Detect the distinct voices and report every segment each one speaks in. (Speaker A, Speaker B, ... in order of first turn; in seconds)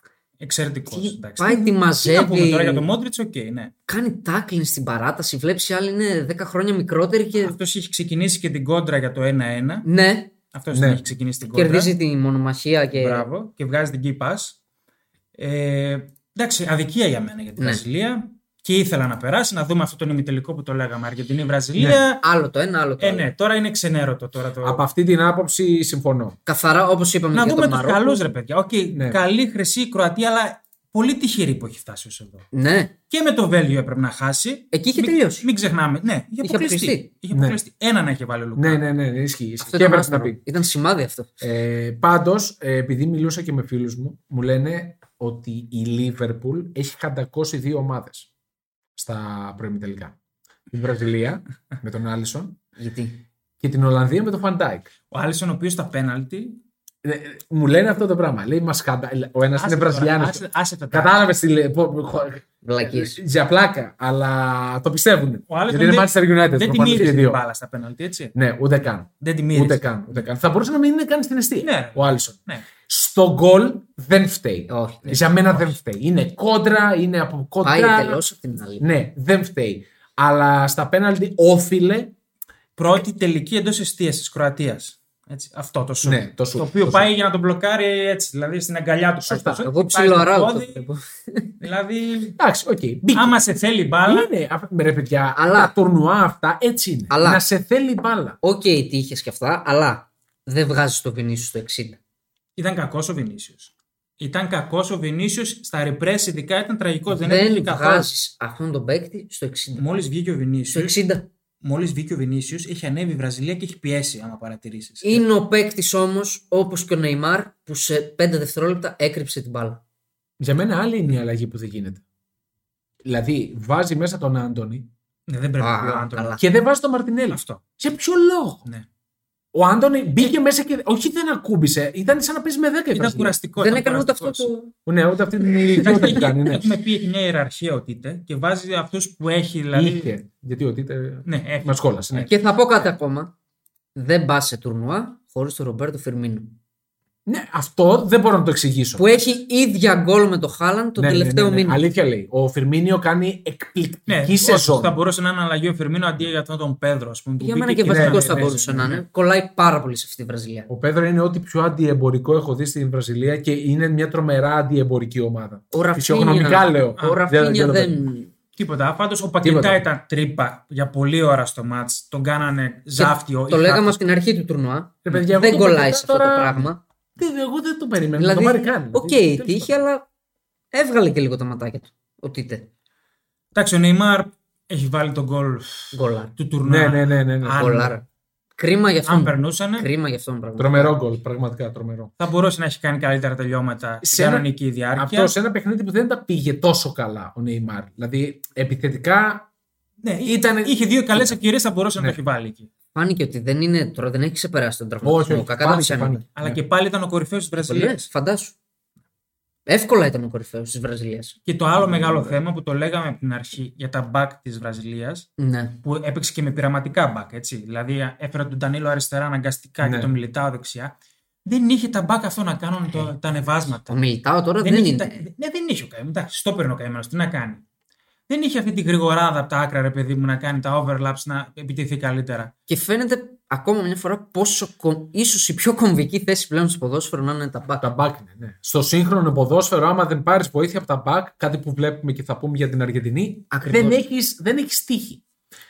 Speaker A: 0.4-3.7, 7.4-9.9, 10.5-11.9, 12.9-14.6, 15.4-22.2, 23.0-24.8, 27.3-32.5, 33.1-38.8, 55.1-56.6, 59.6-61.1, 65.5-68.3, 69.2-70.2, 71.6-72.7, 82.8-90.8, 91.6-92.4, 93.2-94.3, 102.6-108.1, 109.8-111.0, 111.6-115.2, 125.3-126.4, 127.3-127.6, 132.9-134.5, 135.8-140.1, 141.2-141.8, 154.1-159.0, 168.6-174.0, 183.6-188.0, 189.1-189.9, 192.2-195.3, 200.0-202.7, 206.4-208.0, 211.5-215.3, 215.8-220.9, 221.4-224.0, 224.6-227.6, 228.3-232.5
Speaker B: 0.9-2.9, 3.9-7.5, 9.8-10.3, 11.5-13.3, 17.6-17.8, 22.2-23.3, 26.5-28.2, 32.5-32.9, 34.7-35.5, 36.4-37.1, 39.6-41.4, 52.8-53.2, 62.6-63.2, 74.7-75.2, 77.6-78.9, 89.5-91.5, 95.4-95.7, 97.1-97.4, 98.4-102.0, 107.1-109.9, 110.7-111.3, 115.0-119.8, 125.6-126.4, 133.6-134.7, 135.5-136.2, 142.2-143.3, 143.9-146.6, 149.0-151.8, 157.4-160.7, 165.7-168.3, 172.9-176.8, 178.2-180.1, 180.7-182.7, 185.9-186.4, 187.5-188.0, 188.6-191.0, 202.9-206.2, 207.6-208.6, 209.7-211.4, 215.4-215.8, 223.9-225.2, 232.7-237.9, 243.5-244.0
Speaker C: 10.7-11.0, 21.8-22.1, 24.6-26.4, 28.9-29.2, 37.3-37.6, 38.6-40.4, 41.4-48.3, 49.0-50.2, 50.7-52.6, 53.6-54.9, 57.0-67.4, 68.3-72.4, 72.9-78.2, 78.8-82.1, 86.0-87.1, 89.3-89.6, 92.4-93.4, 94.0-98.4, 120.4-122.0, 123.0-124.9, 126.4-128.7, 129.5-133.3, 134.9-136.7, 139.7-142.3, 147.3-149.2, 151.0-155.0, 157.9-159.0, 160.7-168.1, 169.4-169.8, 175.1-179.7, 186.6-187.9, 190.6-192.1, 194.0-199.5, 200.2-201.4, 205.0-206.6, 211.8-212.3, 219.8-220.1, 237.8-245.2